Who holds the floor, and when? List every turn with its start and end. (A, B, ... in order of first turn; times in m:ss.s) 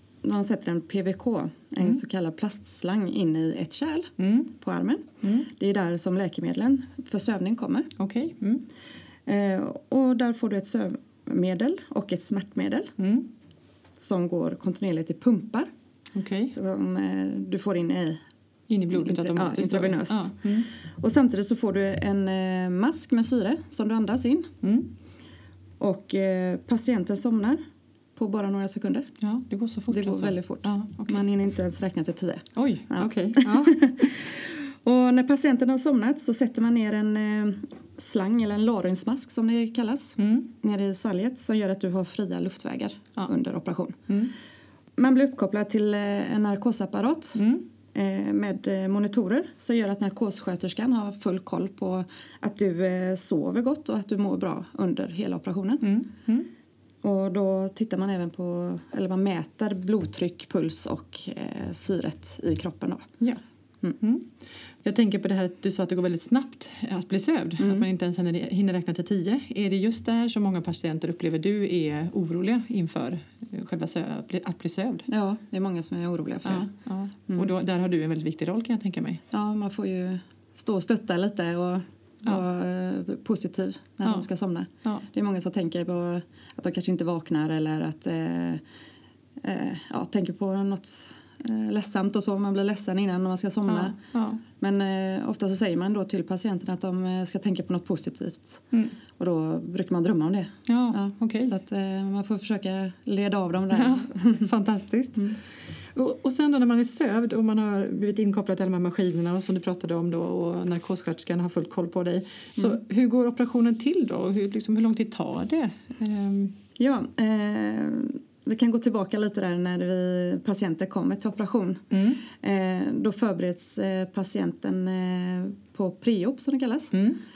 0:00.2-0:07.9 A
0:04.2-0:04.6 B
0:05.2-0:05.5 B
0:08.0-0:08.6 B
0:09.3-0:12.9 A
0:13.0-0:13.3 B
0:14.0-0:15.7 A
0:16.1-0:16.5 B
0:16.5-0:18.2 A
0:18.7-0:20.7 B
0:18.9-0:24.5 A
0:24.6-0:24.9 B
0:25.8-0:27.6 A
0:28.2-0:29.1 A
0:29.2-0:31.2 B
0:29.9-0:44.0 A
0:32.5-0:33.8 B
0:40.2-0:40.5 B
0:44.1-0:44.3 B
0:45.0-0:47.4 A
0:47.4-0:47.7 B
0:47.9-0:55.8 A
0:55.8-0:56.5 B
0:57.0-1:03.0 A
1:04.0-1:15.1 B
1:07.6-1:07.9 A
1:15.1-1:16.7 A
1:16.4-1:19.2 B
1:19.3-1:28.6 A
1:29.4-1:34.0 A
1:33.7-1:34.4 B
1:34.6-1:38.6 A
1:39.2-1:44.5 A
1:40.6-1:41.5 B
1:43.7-1:45.4 B
1:45.9-1:56.6 B
1:56.8-2:06.9 A
2:01.9-2:02.3 B
2:06.9-2:07.2 B